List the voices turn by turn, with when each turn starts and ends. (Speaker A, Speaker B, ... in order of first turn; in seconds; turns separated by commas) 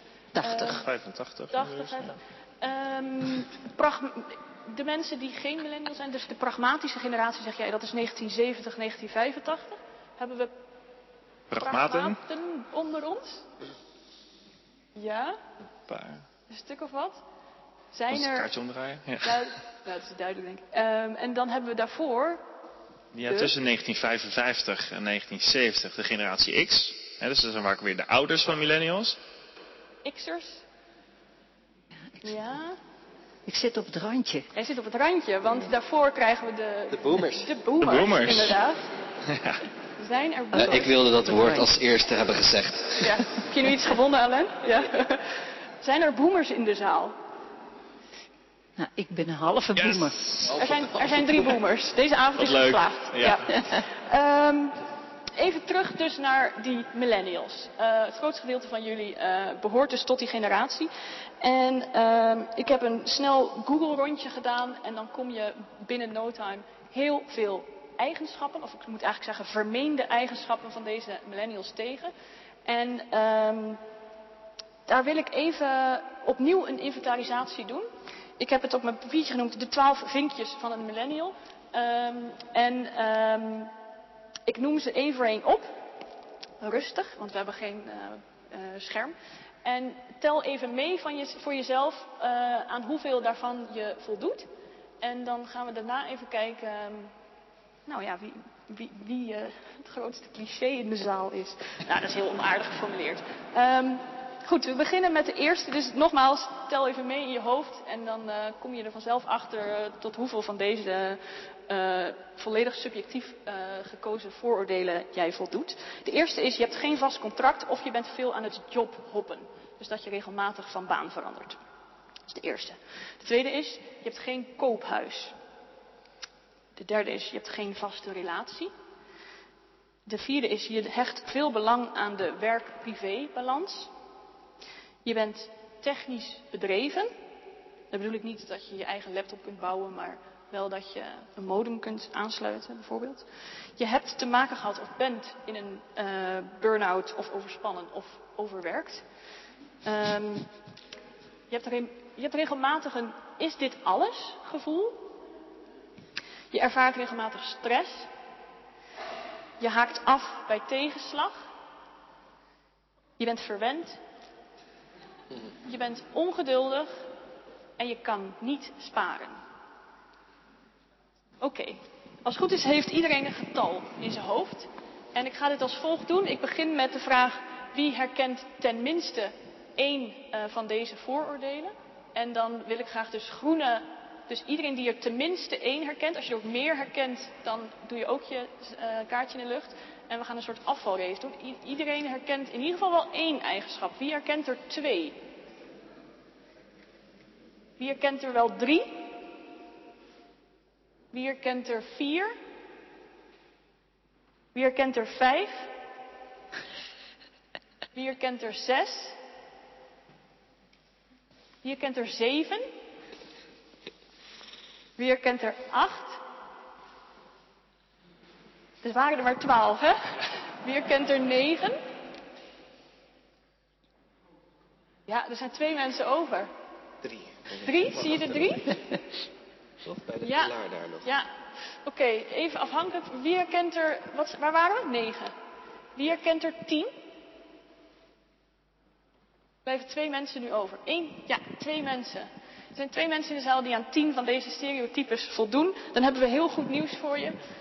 Speaker A: 0.3-0.8, Speaker B: 0.4-0.8, Speaker C: 0.6-2.1, Speaker B: 1.5-10.6, Speaker C: 11.5-12.2, Speaker B: 11.6-13.5, Speaker B: 14.9-15.4, Speaker C: 15.9-16.2, Speaker B: 16.5-17.2, Speaker B: 17.9-18.5, Speaker C: 18.1-19.5, Speaker B: 19.2-22.4, Speaker C: 23.1-29.2, Speaker B: 23.3-23.5, Speaker B: 30.0-30.6, Speaker B: 32.2-32.8, Speaker A: 33.5-34.5, Speaker B: 34.5-38.9, Speaker D: 36.9-37.5, Speaker C: 37.8-38.5, Speaker C: 39.3-39.6, Speaker B: 40.0-41.4, Speaker D: 40.5-43.2, Speaker A: 41.3-41.7, Speaker B: 43.0-47.2, Speaker A: 48.8-50.5, Speaker C: 49.8-50.1, Speaker B: 50.5-54.8, Speaker D: 50.5-51.1, Speaker C: 52.4-53.5, Speaker B: 55.3-60.9, Speaker B: 61.4-72.1, Speaker B: 72.7-73.8, Speaker B: 74.9-77.9, Speaker B: 78.4-83.7, Speaker B: 84.5-85.8, Speaker B: 86.6-94.5, Speaker B: 95.0-97.1, Speaker B: 97.9-121.6, Speaker B: 122.3-125.3, Speaker B: 126.8-128.7, Speaker B: 130.1-133.9, Speaker B: 135.1-137.1, Speaker B: 137.9-143.3, Speaker B: 143.8-149.1, Speaker B: 149.8-150.5, Speaker B: 151.5-155.1, Speaker B: 156.5-158.1, Speaker B: 159.6-161.5, Speaker B: 163.2-164.0, Speaker B: 165.6-166.9, Speaker B: 167.8-169.4, Speaker B: 171.4-195.2, Speaker B: 197.8-199.2, Speaker B: 201.1-202.3, Speaker B: 204.5-205.7, Speaker B: 207.9-209.2, Speaker B: 211.6-212.7, Speaker B: 215.0-216.2, Speaker B: 218.8-221.8, Speaker B: 225.1-226.5, Speaker D: 227.1-228.7, Speaker B: 227.6-228.7, Speaker D: 229.8-231.1, Speaker B: 230.2-231.3, Speaker B: 231.8-235.3, Speaker B: 235.9-236.9, Speaker B: 239.7-247.4